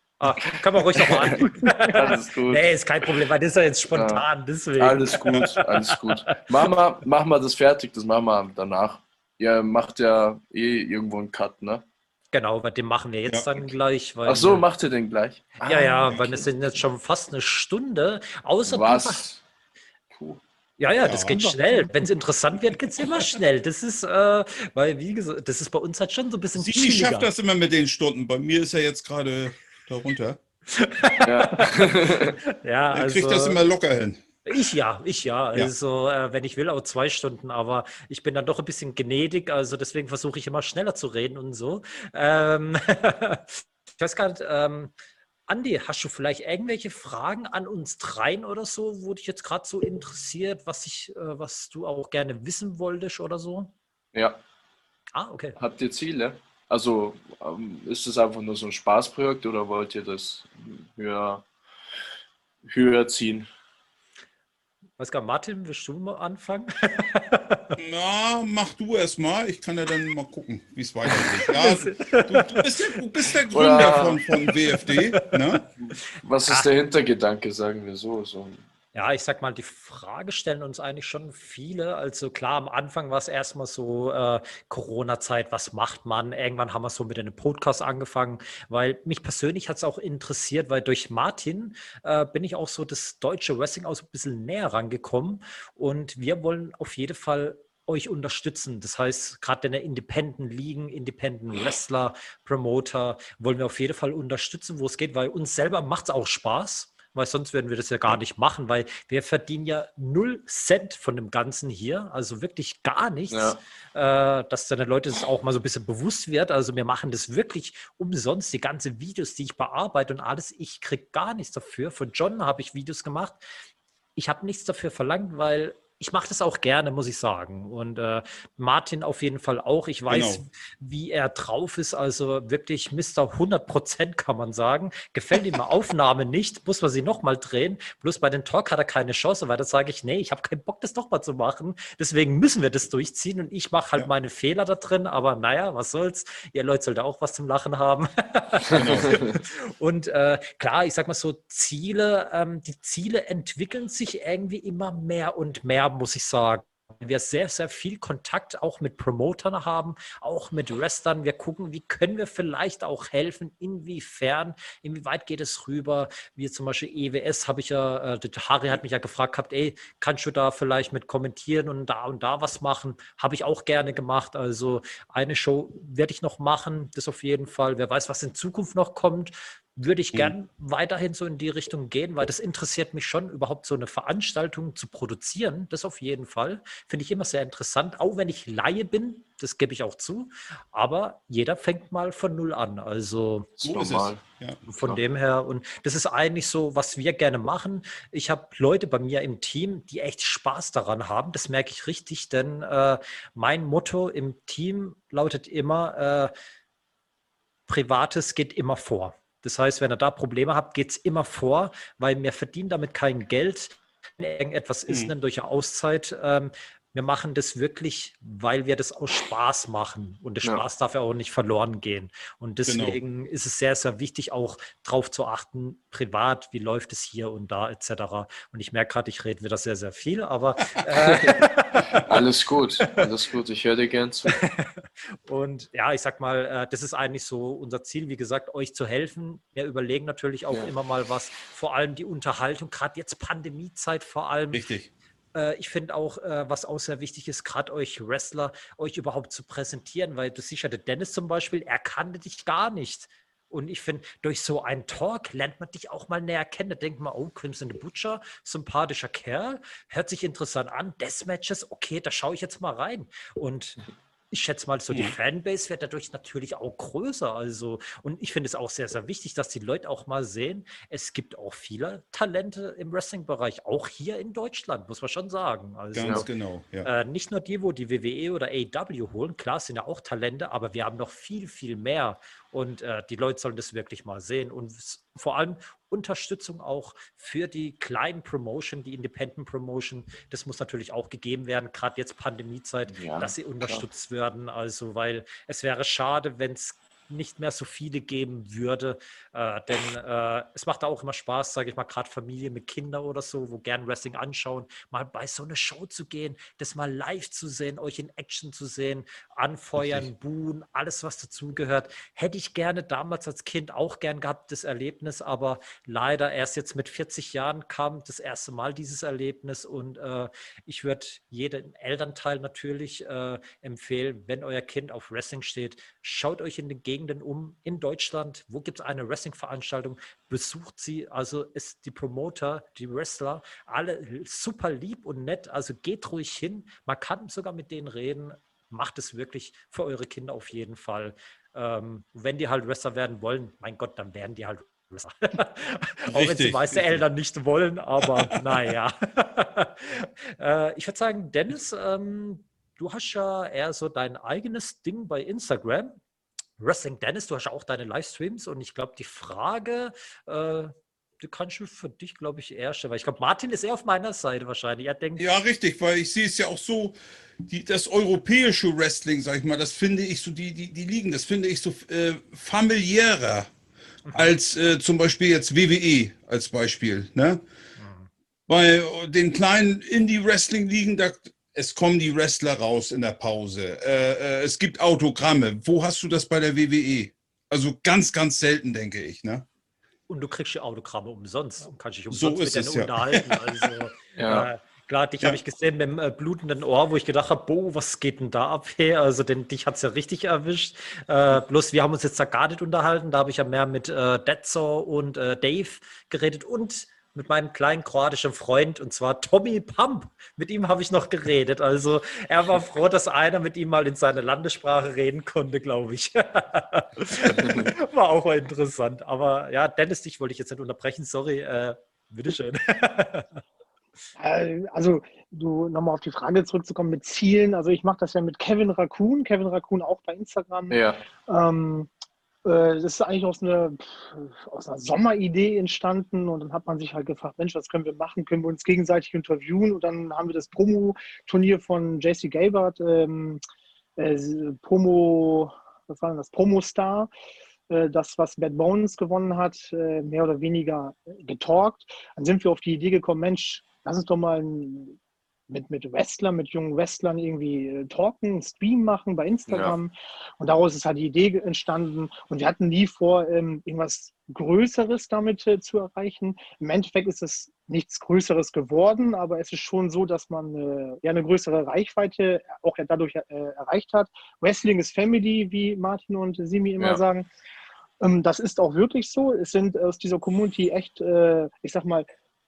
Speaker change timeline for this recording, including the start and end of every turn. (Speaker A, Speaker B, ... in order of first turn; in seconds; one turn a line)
Speaker A: 0.2-6.4
Speaker B: 0.4-2.7
Speaker B: 3.9-4.2
Speaker B: 4.8-11.8
Speaker A: 12.3-14.7
Speaker C: 13.3-13.5
Speaker B: 14.3-16.4
Speaker A: 15.6-19.2
Speaker B: 18.6-19.4
Speaker B: 20.1-20.4
Speaker A: 20.8-27.3
Speaker C: 21.0-21.4
Speaker D: 21.3-21.9
Speaker C: 26.6-30.4
Speaker A: 30.7-33.6
Speaker B: 31.2-32.4
Speaker C: 32.9-34.2
Speaker A: 34.5-44.9
Speaker A: 45.5-53.7
Speaker B: 54.1-54.4
Speaker A: 55.1-55.6
Speaker B: 55.6-61.5
Speaker B: 62.6-63.5
Speaker A: 65.0-67.8
Speaker C: 67.8-75.7
Speaker A: 71.1-72.9
Speaker B: 73.5-74.2
Speaker A: 74.9-75.4
Speaker B: 75.8-78.6
Speaker A: 78.9-123.4
Speaker B: 113.3-113.6
Speaker A: 124.2-193.5
Speaker C: 130.1-130.4
Speaker B: 148.7-149.4
Speaker C: 148.7-149.2
Speaker B: 193.6-194.2
Speaker C: 193.6-194.6
Speaker A: 194.7-206.3
Speaker A: 207.7-232.1
Speaker C: 214.9-215.1
Speaker C: 222.7-223.0
Speaker B: 232.1-234.4
Speaker A: 234.3-244.7
Speaker C: 244.5-244.9
Speaker A: 245.3-276.3
Speaker C: 275.9-276.9
Speaker A: 276.8-356.0
Speaker B: 292.9-293.9
Speaker C: 309.8-310.1
Speaker C: 346.1-347.0
Speaker C: 348.0-348.4
Speaker A: 356.6-365.2
Speaker C: 365.2-373.5
Speaker A: 374.1-374.3
Speaker C: 374.1-377.4
Speaker A: 377.8-378.1
Speaker C: 378.5-389.4
Speaker A: 390.1-423.4
Speaker C: 392.1-393.7
Speaker B: 394.2-394.5
Speaker B: 417.3-417.7
Speaker D: 424.2-431.9
Speaker B: 430.7-431.0
Speaker D: 432.4-443.4
Speaker D: 444.0-447.1
Speaker D: 447.7-455.0
Speaker D: 455.5-477.3
Speaker B: 459.5-459.8
Speaker D: 478.0-482.1